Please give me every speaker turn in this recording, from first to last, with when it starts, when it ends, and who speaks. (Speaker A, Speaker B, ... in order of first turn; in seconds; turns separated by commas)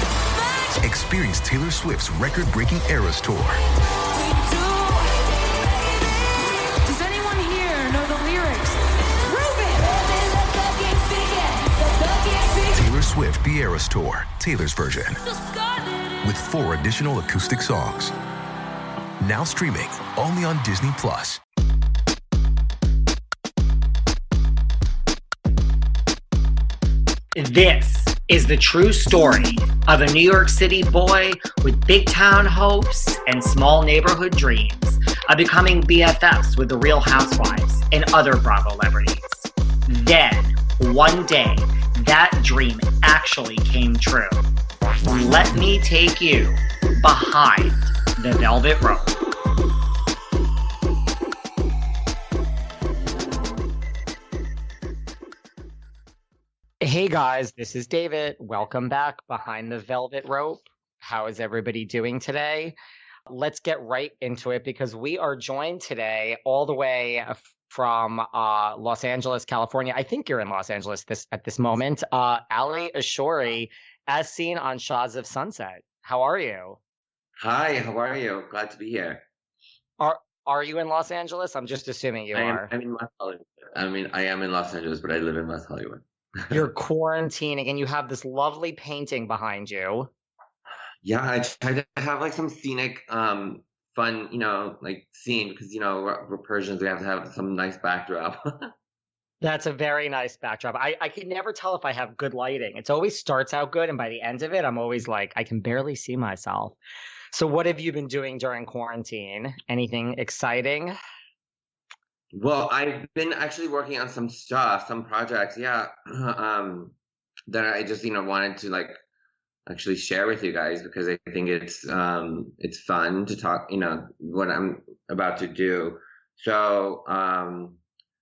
Speaker A: 0.3-0.8, Speaker B: 0.8-3.6, Speaker A: 4.1-12.9, Speaker B: 12.7-15.2, Speaker A: 15.2-16.2, Speaker B: 16.2-18.1, Speaker B: 19.2-21.4, Speaker C: 27.4-44.4, Speaker C: 45.0-49.1, Speaker C: 56.8-62.7, Speaker C: 63.3-76.8, Speaker D: 77.4-79.2, Speaker C: 80.0-82.7, Speaker D: 82.3-86.6, Speaker C: 86.5-90.1, Speaker D: 91.0-98.7, Speaker C: 99.4-106.8, Speaker C: 107.3-110.9, Speaker D: 112.3-116.9, Speaker D: 117.5-119.0, Speaker D: 119.7-127.8